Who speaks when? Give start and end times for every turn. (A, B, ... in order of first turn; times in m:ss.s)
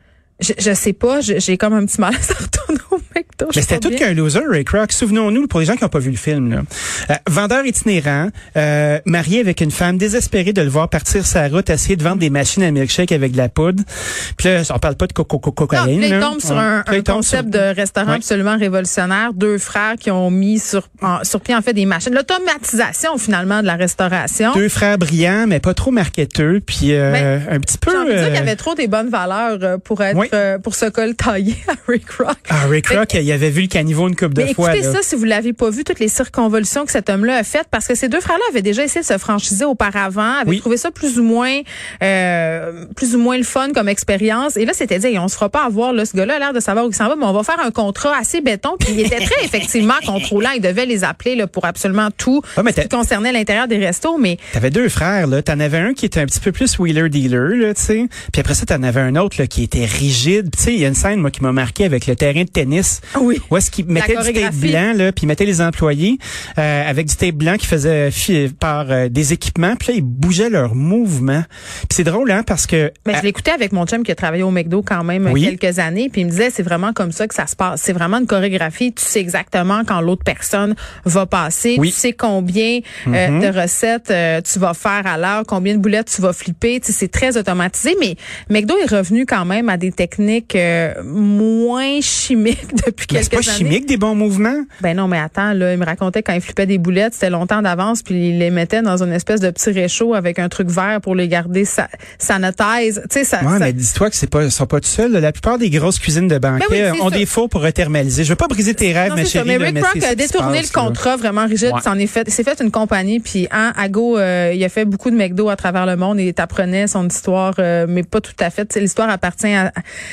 0:00.4-0:04.0 A
0:03.5-0:13.8 B
0:14.4-0:18.2 B
0:15.7-0:24.6 A
0:24.5-0:28.5 B
0:27.9-0:33.1 A
0:32.5-0:35.0 B
0:34.4-0:54.4 A
0:52.6-0:52.9 B
0:54.5-1:13.2 B
1:03.2-1:04.8 A
1:13.1-1:33.8 A
1:15.3-1:15.6 B
1:23.1-1:23.5 B
1:33.1-1:34.7 B
1:34.8-1:43.7 A
1:43.4-1:51.0 B
1:46.6-1:47.2 A
1:49.0-1:59.8 A